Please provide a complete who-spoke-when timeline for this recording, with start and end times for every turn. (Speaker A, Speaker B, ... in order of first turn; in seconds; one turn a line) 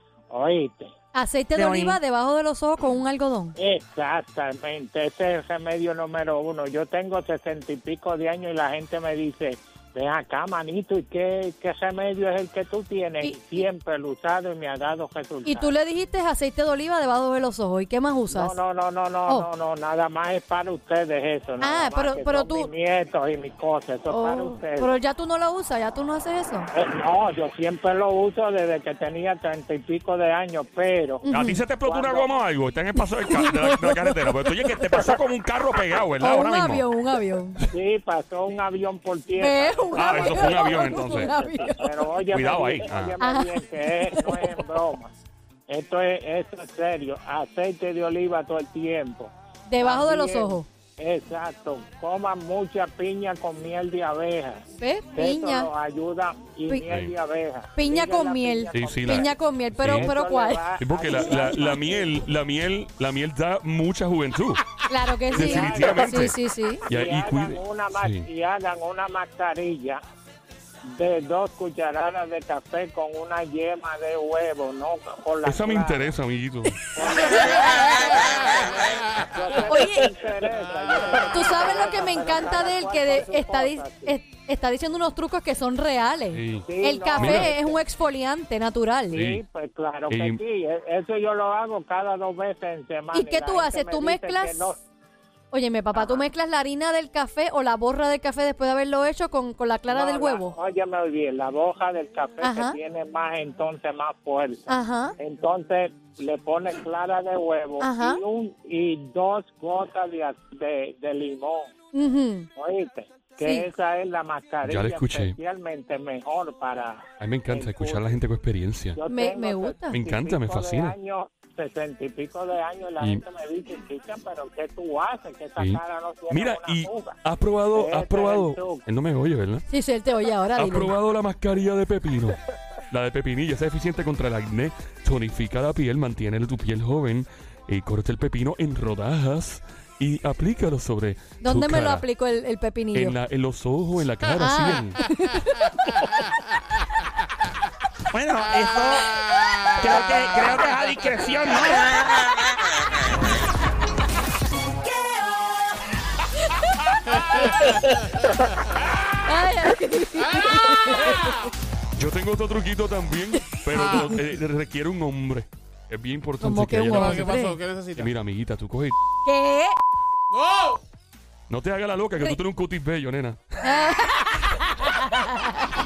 Speaker A: 0.3-0.9
Speaker B: 1.1-3.5
Speaker C: 1.5-2.0
Speaker A: 3.6-15.7
Speaker B: 13.2-13.6
Speaker B: 15.4-18.6
Speaker A: 18.3-24.9
Speaker B: 21.6-22.7
Speaker B: 24.1-26.7
Speaker A: 26.7-31.3
Speaker B: 31.2-31.6
Speaker D: 31.3-36.8
Speaker A: 31.8-32.3
Speaker B: 33.2-35.0
Speaker B: 36.2-37.6
Speaker A: 37.7-45.1
Speaker B: 39.4-42.0
Speaker D: 39.9-41.4
Speaker D: 42.3-43.2
Speaker B: 43.2-44.4
Speaker A: 45.7-62.1
Speaker B: 49.7-50.6
Speaker B: 54.8-55.7
Speaker D: 56.9-57.1
Speaker B: 57.7-60.7
Speaker D: 58.7-60.1
Speaker D: 60.8-64.6
Speaker B: 64.9-66.9
Speaker D: 65.3-68.3
Speaker A: 65.3-66.2
Speaker A: 66.8-70.0
Speaker A: 70.9-76.1
Speaker D: 75.4-77.0
Speaker A: 76.9-84.2
Speaker B: 77.0-78.0
Speaker E: 77.7-79.2
Speaker B: 79.6-80.1
Speaker B: 81.3-89.3
Speaker D: 86.3-87.5
Speaker A: 86.6-87.8
Speaker D: 89.1-89.4
Speaker A: 89.2-94.8
Speaker D: 90.1-90.4
Speaker B: 93.1-94.6
Speaker B: 95.5-100.6
Speaker A: 95.9-96.2
Speaker A: 99.9-111.7
Speaker B: 102.4-102.8
Speaker B: 104.7-105.1
Speaker B: 107.8-108.2
Speaker B: 111.9-112.5
Speaker A: 112.5-118.1
Speaker B: 113.4-113.7
Speaker D: 114.6-115.4
Speaker D: 117.2-119.0
Speaker A: 118.9-127.2
Speaker B: 119.1-120.0
Speaker D: 119.9-120.9
Speaker D: 125.6-129.7
Speaker A: 127.7-128.8
Speaker B: 129.7-130.9
Speaker D: 130.5-142.1
Speaker B: 141.4-143.2
Speaker D: 142.9-145.0
Speaker B: 144.4-146.0
Speaker C: 148.1-152.3
Speaker E: 157.1-158.9
Speaker B: 157.3-157.8
Speaker B: 159.2-161.3
Speaker E: 160.2-161.5
Speaker D: 161.9-167.4
Speaker E: 163.7-164.3
Speaker B: 166.4-167.6
Speaker E: 166.9-168.1
Speaker D: 167.9-168.9
Speaker B: 169.2-169.7
Speaker E: 170.3-170.8
Speaker D: 171.5-173.4
Speaker B: 173.6-175.7